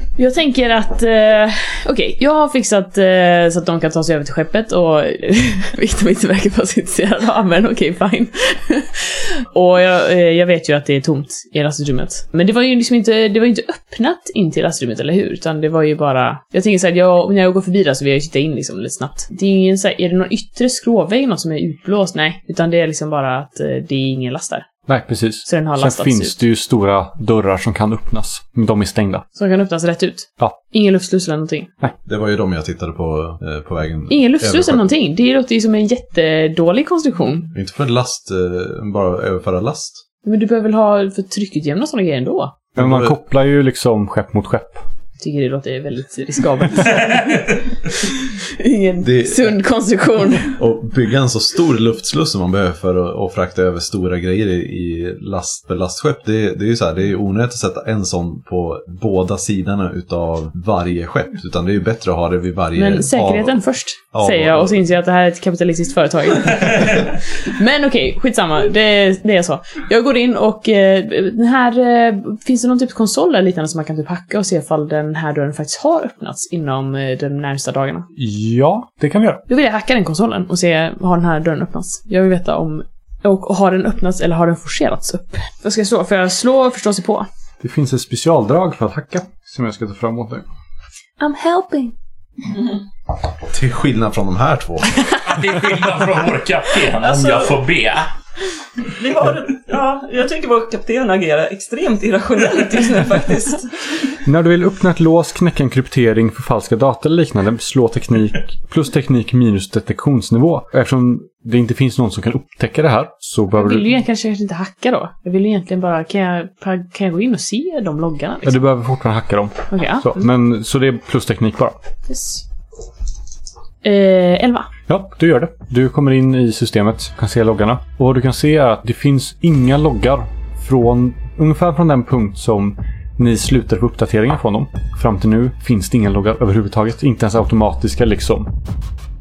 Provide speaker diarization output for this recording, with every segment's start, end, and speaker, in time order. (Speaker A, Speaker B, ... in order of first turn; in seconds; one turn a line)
Speaker A: 0.2-24.7
Speaker B: 24.9-29.2
Speaker A: 25.4-26.3
Speaker A: 29.3-31.7
Speaker C: 32.0-34.9
Speaker A: 34.1-37.5
Speaker C: 37.5-40.0
Speaker A: 40.2-42.6
Speaker C: 42.8-43.2
Speaker B: 42.8-44.8
Speaker A: 45.2-47.5
Speaker A: 48.3-50.6
Speaker C: 49.0-49.5
Speaker C: 50.5-63.6
Speaker A: 62.7-78.1
Speaker C: 64.1-64.8
Speaker B: 78.2-79.4
Speaker A: 79.5-87.3
Speaker B: 87.6-90.4
Speaker A: 91.2-91.9
Speaker C: 93.5-95.0
Speaker D: 95.1-98.1
Speaker E: 97.0-97.6
Speaker E: 98.9-103.8
Speaker B: 104.2-113.9
Speaker A: 113.5-118.6
Speaker B: 118.4-121.8
Speaker A: 119.7-120.2
Speaker A: 122.1-122.4
Speaker A: 123.8-124.7
Speaker B: 124.9-138.5